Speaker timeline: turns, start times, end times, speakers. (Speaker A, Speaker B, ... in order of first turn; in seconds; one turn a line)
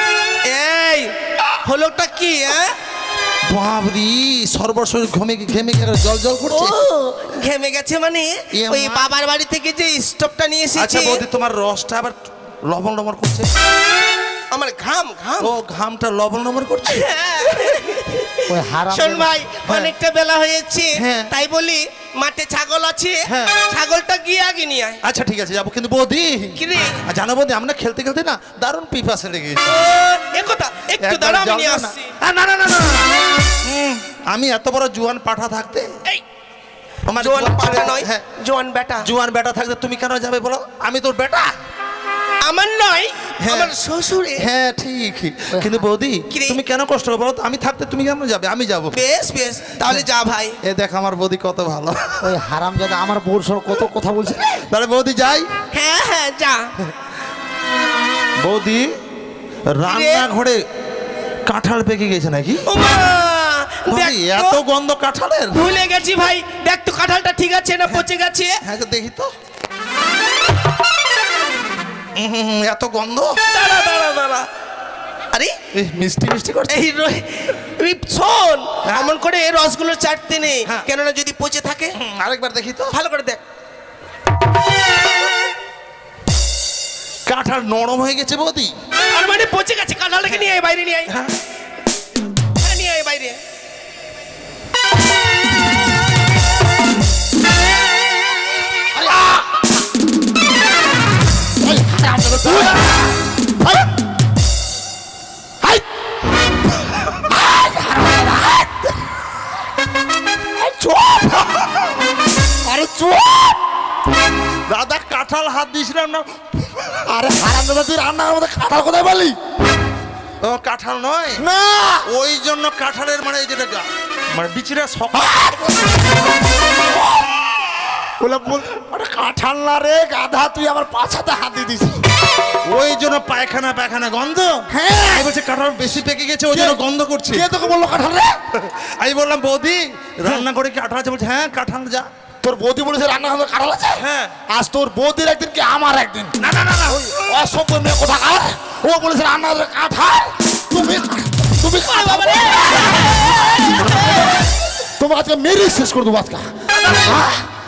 Speaker A: 0.5-1.1
Speaker A: 1.6-2.7
Speaker B: 3.5-6.8
Speaker A: 6.5-11.2
Speaker B: 8.5-9.1
Speaker B: 10.8-13.5
Speaker A: 14.5-15.5
Speaker B: 15.4-17.1
Speaker A: 16.9-25.0
Speaker C: 18.5-19.3
Speaker B: 19.6-19.9
Speaker B: 21.0-21.3
Speaker B: 23.3-23.6
Speaker B: 25.0-29.8
Speaker A: 26.6-27.0
Speaker A: 29.6-32.0
Speaker B: 31.0-33.1
Speaker B: 33.6-35.9
Speaker B: 37.0-38.2
Speaker A: 37.1-39.1
Speaker B: 39.0-41.5
Speaker A: 42.4-44.5
Speaker B: 43.4-43.7
Speaker B: 44.4-49.0
Speaker C: 45.5-45.8
Speaker A: 46.3-46.6
Speaker A: 48.9-50.5
Speaker B: 50.6-52.3
Speaker C: 52.2-54.6
Speaker B: 54.7-55.5
Speaker A: 55.7-56.7
Speaker B: 58.4-58.9
Speaker B: 59.8-60.6
Speaker A: 59.8-60.3
Speaker B: 61.5-62.6
Speaker A: 62.6-64.6
Speaker B: 63.9-65.6
Speaker A: 65.5-68.5
Speaker B: 68.6-69.3
Speaker B: 72.2-73.4
Speaker A: 73.5-74.5
Speaker A: 75.3-75.5
Speaker B: 75.7-76.9
Speaker A: 76.7-81.9
Speaker B: 82.0-82.9
Speaker A: 82.9-83.4
Speaker B: 87.3-88.7
Speaker A: 89.1-91.1
Speaker A: 92.6-93.4
Speaker C: 99.0-99.5
Speaker B: 99.0-99.3
Speaker C: 101.6-102.9
Speaker B: 102.4-102.7
Speaker C: 107.3-109.1
Speaker C: 110.6-111.7
Speaker C: 112.6-113.6
Speaker B: 114.7-117.0
Speaker C: 117.1-119.3
Speaker B: 120.4-121.4
Speaker C: 121.4-122.1
Speaker B: 122.0-125.7
Speaker C: 125.1-125.9
Speaker C: 128.2-132.0
Speaker B: 132.7-137.5
Speaker C: 134.7-135.3
Speaker C: 136.5-138.4
Speaker B: 138.6-142.1
Speaker C: 142.4-146.3
Speaker B: 144.0-144.3
Speaker B: 146.4-147.4
Speaker C: 146.9-153.0
Speaker A: 151.8-154.4
Speaker C: 155.0-156.5
Speaker B: 156.7-157.3
Speaker C: 157.1-157.5